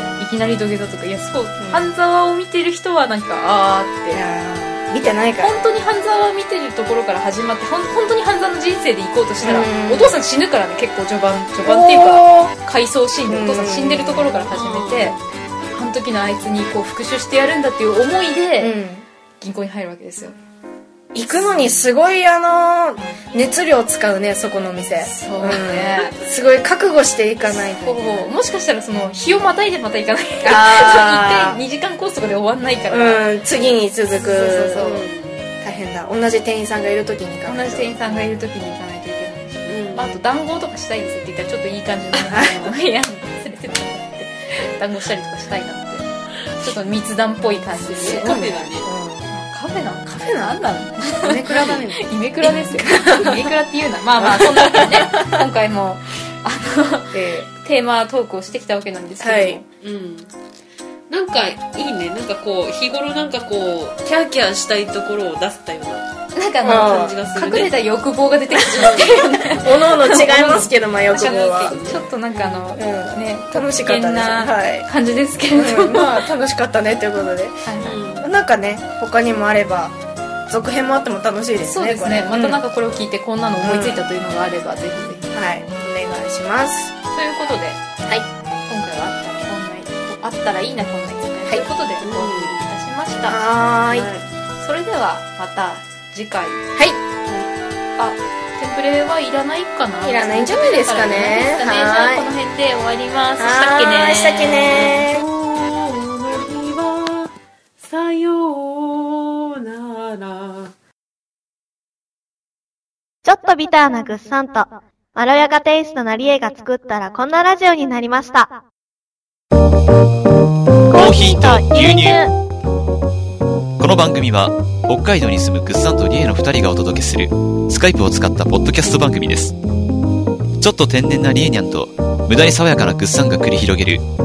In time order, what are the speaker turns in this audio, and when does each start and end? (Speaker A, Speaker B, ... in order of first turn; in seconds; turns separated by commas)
Speaker A: 0.2-4.2, Speaker B: 1.6-1.9, Speaker B: 4.1-5.7, Speaker A: 5.4-15.2, Speaker B: 9.4-10.2, Speaker B: 11.6-12.6, Speaker B: 13.3-14.5, Speaker C: 14.5-15.3, Speaker A: 15.7-18.8, Speaker B: 18.6-19.1, Speaker A: 19.4-20.4, Speaker B: 21.1-28.3, Speaker A: 21.2-21.7, Speaker A: 25.0-26.1, Speaker A: 27.4-33.3, Speaker B: 30.4-31.6, Speaker B: 32.9-34.9, Speaker A: 34.1-35.1, Speaker C: 34.8-35.5, Speaker B: 35.6-38.1, Speaker A: 37.5-48.4, Speaker C: 39.7-40.2, Speaker B: 42.3-42.7, Speaker C: 47.9-48.9, Speaker B: 48.0-49.3, Speaker A: 49.3-59.6, Speaker B: 50.2-53.4, Speaker B: 54.2-55.3, Speaker B: 57.1-57.5, Speaker B: 59.2-59.6, Speaker C: 59.8-60.3, Speaker C: 61.1-66.1, Speaker A: 66.3-76.2, Speaker B: 66.6-67.1, Speaker C: 66.7-67.8, Speaker C: 68.7-69.1, Speaker B: 68.7-74.9, Speaker C: 71.7-71.9, Speaker B: 75.5-80.0, Speaker A: 77.7-78.0, Speaker C: 77.8-78.3, Speaker B: 80.5-82.6, Speaker A: 81.7-85.2, Speaker B: 83.6-84.0, Speaker B: 85.0-86.9, Speaker A: 87.1-93.4, Speaker C: 92.0-92.6, Speaker B: 93.3-94.1, Speaker C: 93.9-94.2, Speaker A: 94.6-96.6, Speaker A: 98.0-105.0, Speaker B: 100.0-102.3, Speaker B: 103.4-105.2, Speaker C: 104.6-110.7, Speaker D: 113.2-118.5, Speaker D: 120.9-122.3, Speaker E: 120.9-122.2, Speaker E: 123.8-129.5, Speaker E: 130.6-134.0